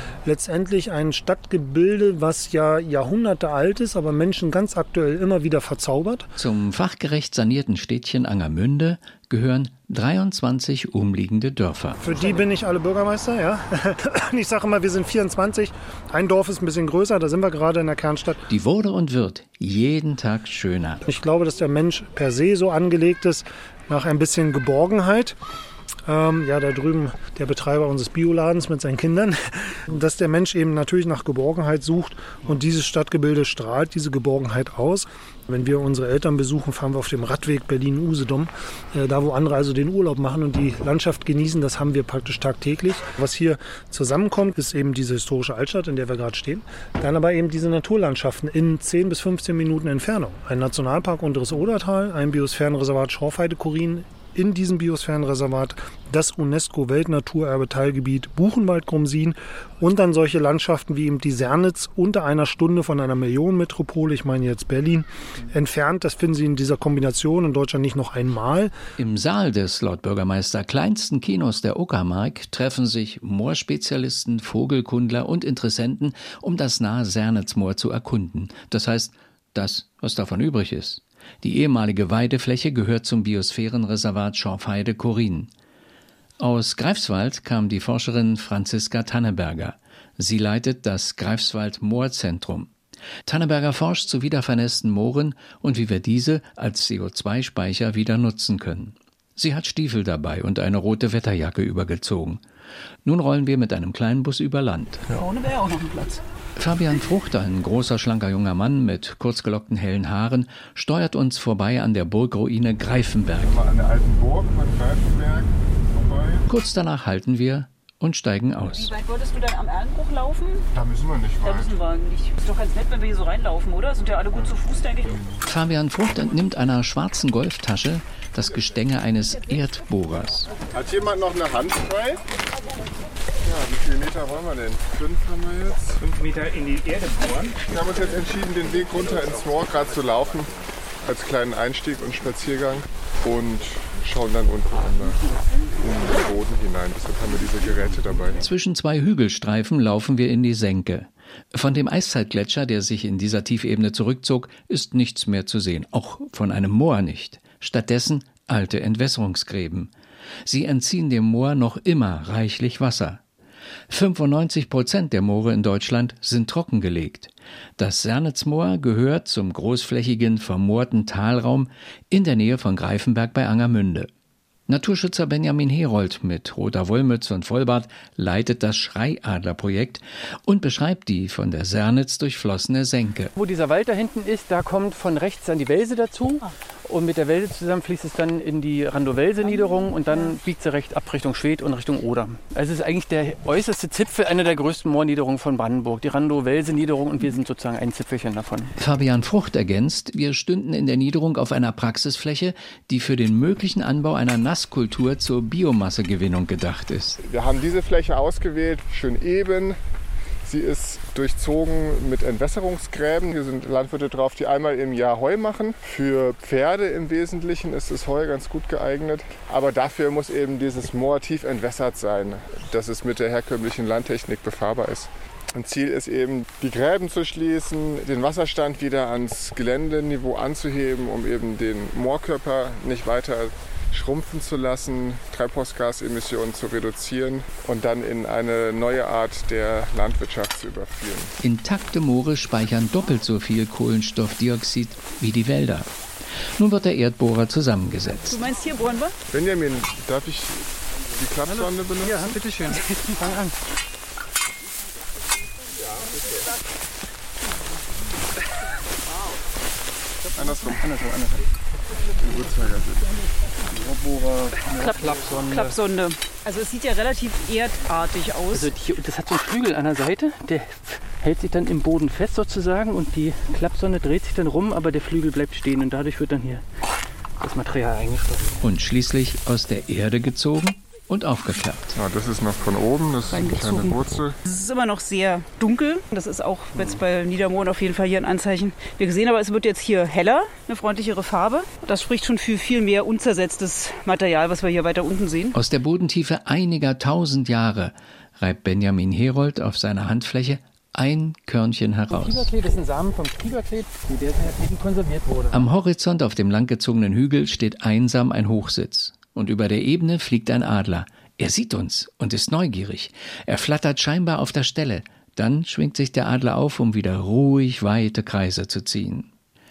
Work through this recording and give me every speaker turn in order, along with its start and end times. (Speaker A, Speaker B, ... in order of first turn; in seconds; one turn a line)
Speaker A: 0.2-6.3
Speaker B: 6.3-12.0
Speaker A: 12.0-18.5
Speaker B: 18.5-21.0
Speaker A: 21.1-25.3
Speaker A: 26.1-68.7
Speaker B: 69.0-85.5
Speaker B: 86.4-92.7
Speaker B: 93.2-102.4
Speaker B: 103.0-105.0
Speaker C: 105.1-106.2
Speaker B: 106.6-113.6
Speaker D: 113.4-116.5
Speaker B: 116.5-118.9
Speaker C: 118.7-120.7
Speaker D: 120.7-121.8
Speaker C: 121.4-125.2
Speaker B: 125.5-130.5
Speaker D: 130.7-132.2
Speaker D: 133.4-136.2
Speaker E: 136.2-137.6
Speaker D: 137.6-140.5
Speaker D: 141.0-148.4
Speaker B: 148.4-159.9
Speaker B: 160.4-163.2
Speaker B: 163.9-174.1
Speaker B: 174.7-183.3
Speaker E: 183.3-198.7
Speaker C: 189.4-190.3
Speaker B: 198.8-207.2
Speaker D: 207.2-209.8
Speaker D: 210.4-241.3
Speaker B: 241.4-245.9
Speaker B: 246.6-248.4
Speaker C: 248.3-249.1
Speaker D: 249.3-250.6
Speaker D: 251.1-252.4
Speaker E: 251.5-253.6
Speaker D: 260.3-261.0
Speaker E: 260.8-261.4
Speaker D: 262.2-263.1
Speaker E: 263.7-265.8
Speaker C: 264.8-268.7
Speaker E: 268.5-276.6
Speaker E: 277.4-278.6
Speaker B: 278.6-281.9
Speaker D: 281.9-284.4
Speaker C: 283.3-295.5
Speaker E: 286.7-287.0
Speaker B: 295.5-302.5
Speaker E: 302.1-305.7
Speaker B: 305.5-319.3